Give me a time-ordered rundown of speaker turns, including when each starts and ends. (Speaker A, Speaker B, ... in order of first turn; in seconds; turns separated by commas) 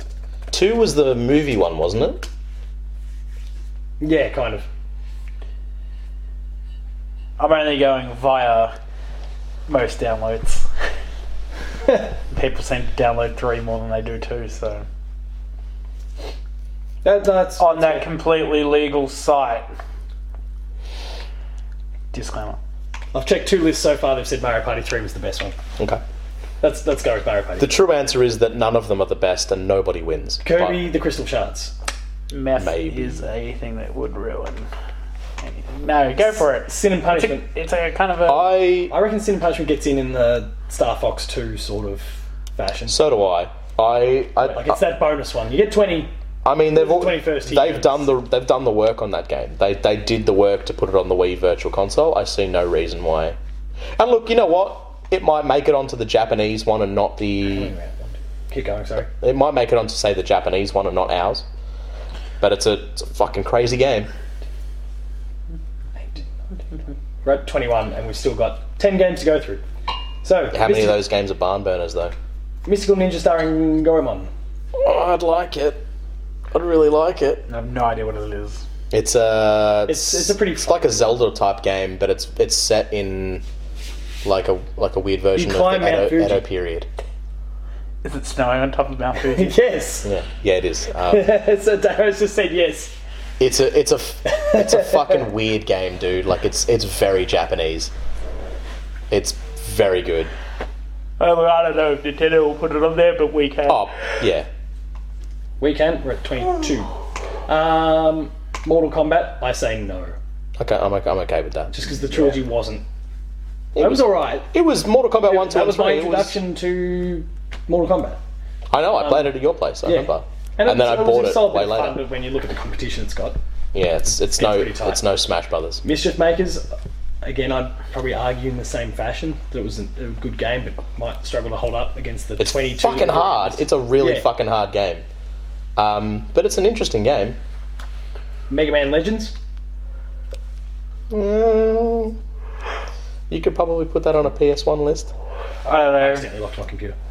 Speaker A: 0.5-2.3, Speaker B: 4.0-4.7, Speaker C: 7.4-8.8, Speaker C: 9.7-10.7, Speaker C: 12.3-14.9, Speaker B: 17.0-18.1, Speaker C: 17.6-19.7, Speaker C: 22.1-22.6, Speaker B: 23.1-25.6, Speaker B: 26.6-27.7, Speaker A: 27.6-30.8, Speaker B: 30.4-31.7, Speaker C: 32.3-34.7, Speaker A: 32.6-33.2, Speaker C: 35.4-38.5, Speaker B: 36.5-37.5, Speaker A: 38.3-38.9, Speaker B: 38.9-43.0, Speaker A: 42.9-44.8, Speaker B: 44.4-46.1, Speaker A: 46.5-53.4, Speaker B: 46.7-48.1, Speaker A: 54.0-57.7, Speaker B: 57.5-59.1, Speaker A: 59.1-61.5, Speaker A: 62.4-64.1, Speaker B: 66.0-66.2, Speaker B: 67.2-69.6, Speaker B: 70.2-71.0, Speaker A: 70.5-72.2, Speaker B: 72.7-74.3, Speaker A: 74.8-75.8, Speaker A: 76.5-77.4, Speaker C: 77.5-78.6, Speaker A: 78.9-83.4, Speaker B: 79.9-81.1, Speaker A: 84.2-86.9, Speaker B: 85.3-86.5, Speaker C: 88.0-89.6, Speaker B: 89.2-90.1, Speaker A: 90.0-91.3, Speaker B: 91.1-92.9, Speaker A: 93.4-97.9, Speaker B: 94.3-95.0, Speaker A: 99.1-100.3, Speaker C: 101.2-103.9, Speaker A: 103.7-104.5, Speaker B: 105.6-106.9, Speaker B: 107.5-110.2, Speaker A: 110.6-111.7, Speaker B: 111.7-112.8, Speaker A: 113.8-116.4, Speaker B: 113.8-114.5, Speaker B: 115.2-118.2, Speaker A: 118.7-122.0, Speaker B: 119.0-119.3, Speaker B: 119.8-123.4, Speaker A: 123.7-125.8, Speaker B: 124.4-125.0, Speaker B: 125.8-126.7, Speaker B: 127.2-134.3, Speaker A: 132.4-135.0, Speaker A: 135.8-137.4, Speaker B: 138.5-139.3, Speaker A: 141.1-142.2, Speaker A: 143.3-145.1, Speaker C: 145.7-146.3, Speaker B: 146.0-146.9